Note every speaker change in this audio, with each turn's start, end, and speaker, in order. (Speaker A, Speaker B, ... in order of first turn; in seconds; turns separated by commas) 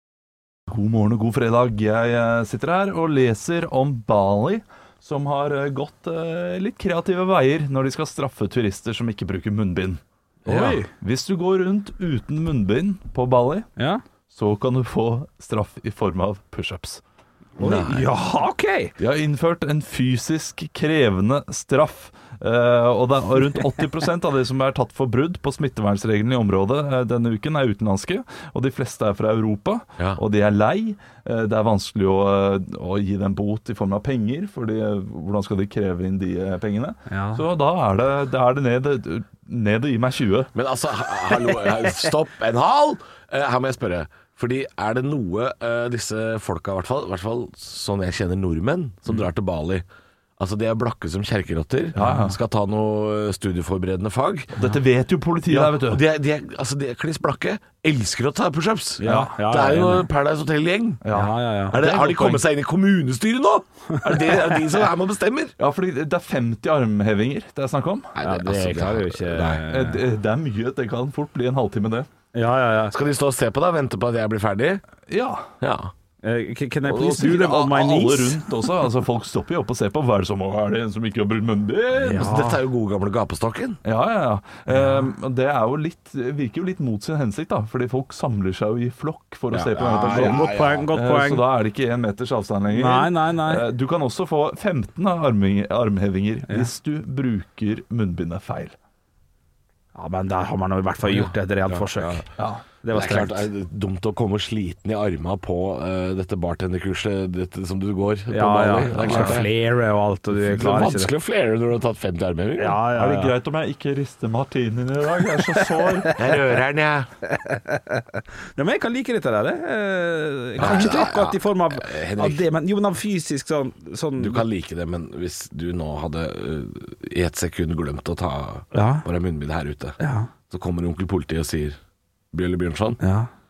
Speaker A: 0.7-13.7, Speaker B: 10.5-10.9, Speaker C: 10.5-10.7, Speaker B: 13.8-14.0, Speaker A: 14.3-17.0, Speaker B: 17.6-18.9, Speaker A: 19.0-40.5, Speaker B: 37.1-37.4, Speaker C: 40.5-49.8, Speaker C: 50.4-54.6, Speaker A: 51.9-52.4, Speaker B: 52.0-52.3, Speaker A: 54.5-56.0, Speaker C: 55.5-61.0, Speaker B: 59.0-60.1, Speaker A: 59.0-59.3, Speaker A: 61.0-62.5, Speaker B: 61.1-61.8, Speaker C: 61.7-65.5, Speaker A: 65.6-68.1, Speaker C: 68.1-69.6, Speaker B: 68.2-70.0, Speaker A: 69.7-72.1, Speaker B: 72.3-72.9, Speaker C: 72.9-74.8, Speaker A: 75.1-75.5, Speaker C: 75.6-75.9, Speaker B: 76.2-78.4, Speaker A: 76.9-82.3, Speaker B: 82.0-82.6, Speaker C: 82.0-83.8, Speaker A: 83.8-98.7, Speaker B: 84.7-85.1, Speaker C: 89.5-90.9, Speaker B: 90.0-91.4, Speaker B: 92.7-93.6, Speaker B: 99.9-102.2, Speaker C: 101.0-102.2, Speaker A: 102.4-102.6, Speaker B: 102.8-103.5, Speaker C: 102.9-109.5, Speaker B: 108.3-111.1, Speaker A: 109.0-109.3, Speaker C: 110.3-112.8, Speaker B: 112.6-113.3, Speaker A: 112.9-116.1, Speaker B: 115.5-116.2, Speaker C: 116.2-117.1, Speaker B: 117.3-124.5, Speaker C: 120.6-122.4, Speaker C: 124.2-131.8, Speaker B: 128.7-129.0, Speaker B: 130.0-130.3, Speaker C: 132.3-133.0, Speaker B: 133.0-133.3